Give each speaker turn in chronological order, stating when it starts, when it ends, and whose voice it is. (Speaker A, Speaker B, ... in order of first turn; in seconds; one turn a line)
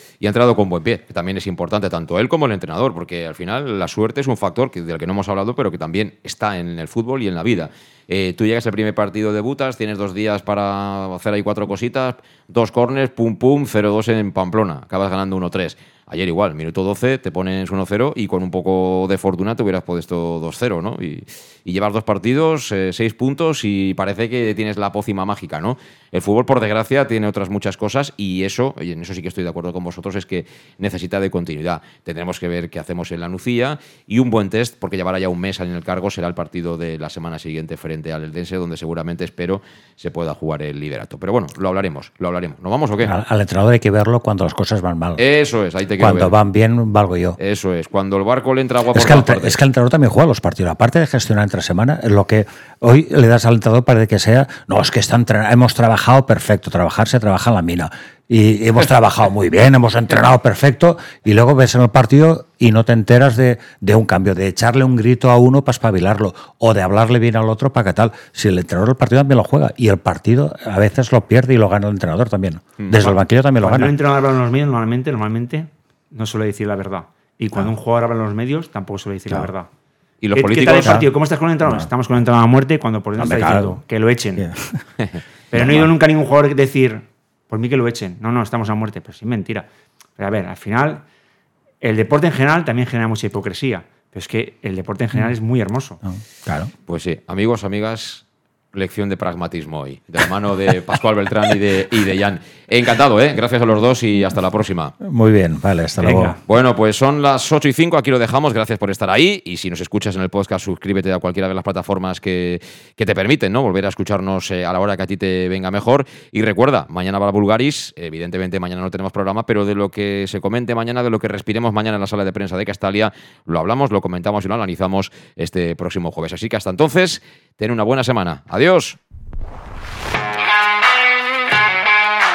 Speaker A: 0.2-43.1
Speaker B: 43.0-45.2
Speaker A: 45.2-46.3
Speaker B: 46.0-47.4
Speaker A: 47.4-49.6
Speaker B: 48.9-74.0
Speaker A: 72.8-73.1
Speaker C: 73.6-79.7
Speaker A: 80.2-81.0
Speaker C: 80.3-84.5
Speaker B: 80.8-81.1
Speaker B: 81.6-81.9
Speaker B: 83.2-83.8
Speaker B: 84.4-84.8
Speaker C: 85.5-91.0
Speaker B: 85.5-85.9
Speaker C: 91.8-96.0
Speaker B: 96.0-96.7
Speaker A: 96.9-105.0
Speaker B: 105.0-106.4
Speaker C: 106.0-106.4
Speaker A: 106.5-129.0